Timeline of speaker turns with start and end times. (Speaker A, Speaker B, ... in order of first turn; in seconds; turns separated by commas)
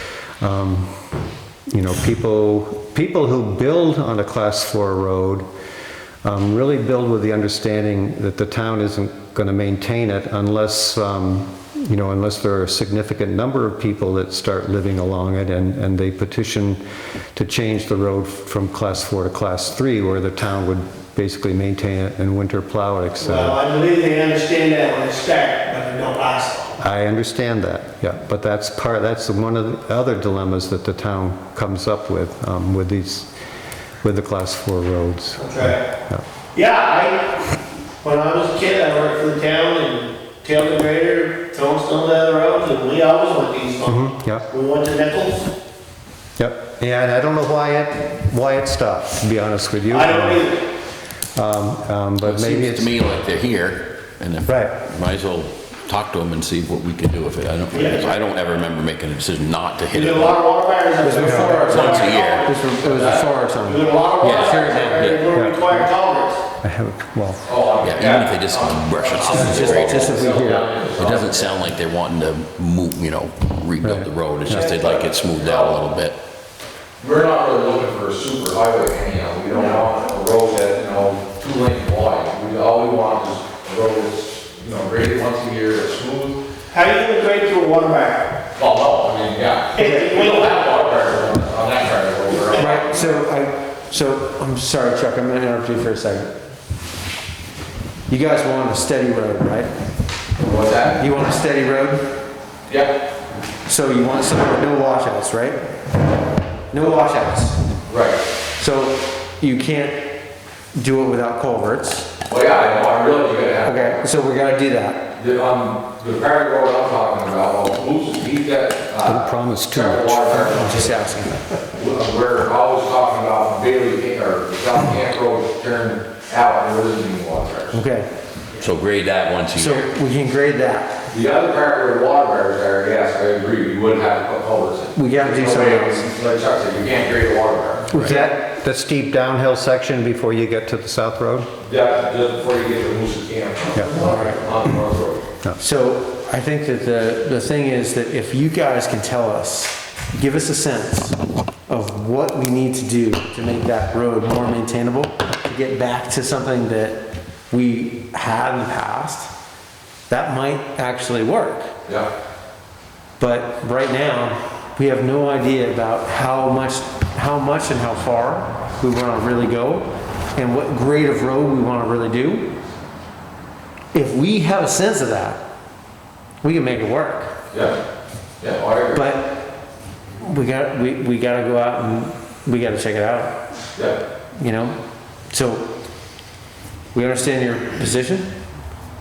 Speaker A: 0.4-0.9, Speaker A: 1.7-5.5, Speaker A: 6.2-16.8, Speaker A: 17.3-23.6, Speaker B: 23.2-26.8, Speaker A: 26.8-33.3, Speaker A: 34.0-36.2, Speaker B: 35.4-35.8, Speaker B: 36.5-37.3, Speaker B: 38.0-45.5, Speaker A: 43.9-44.5, Speaker A: 46.4-50.5, Speaker B: 49.9-50.6, Speaker A: 51.4-53.0, Speaker C: 52.2-60.4, Speaker A: 54.5-54.8, Speaker B: 57.7-58.2, Speaker B: 59.9-62.5, Speaker D: 61.0-65.1, Speaker A: 61.2-61.5, Speaker C: 61.6-62.4, Speaker E: 62.8-63.3, Speaker B: 63.6-66.4, Speaker C: 64.2-65.3, Speaker A: 65.3-65.9, Speaker A: 66.6-67.4, Speaker E: 67.5-71.7, Speaker C: 67.8-70.2, Speaker D: 69.3-70.7, Speaker C: 71.0-76.2, Speaker A: 73.8-74.7, Speaker E: 74.6-75.8, Speaker E: 77.0-86.4, Speaker B: 86.7-88.3, Speaker E: 88.5-93.0, Speaker B: 89.7-90.6, Speaker D: 89.8-90.0, Speaker D: 92.5-96.3, Speaker D: 98.1-99.7, Speaker E: 100.4-101.0, Speaker D: 101.0-102.0, Speaker E: 102.7-102.9, Speaker D: 103.7-105.6, Speaker D: 106.7-107.6, Speaker E: 107.9-108.2, Speaker D: 108.6-110.0, Speaker D: 110.7-112.1, Speaker E: 112.3-114.0, Speaker D: 113.6-115.0, Speaker E: 115.2-121.2, Speaker A: 119.0-120.3, Speaker D: 120.3-121.4, Speaker E: 121.7-127.8, Speaker D: 127.7-128.1, Speaker C: 128.6-129.9, Speaker D: 129.5-130.9, Speaker E: 131.1-137.9, Speaker D: 134.9-136.0, Speaker D: 137.9-138.3, Speaker A: 137.9-141.5, Speaker E: 141.6-145.2, Speaker D: 144.0-144.4, Speaker D: 145.6-151.2, Speaker D: 151.7-159.3, Speaker D: 160.1-161.7, Speaker D: 163.2-172.5, Speaker D: 173.9-175.4, Speaker D: 176.4-177.3, Speaker E: 177.5-177.8, Speaker E: 178.4-179.1, Speaker D: 178.9-179.3, Speaker D: 180.2-183.4, Speaker D: 184.3-184.8, Speaker D: 185.3-185.7, Speaker D: 186.9-188.3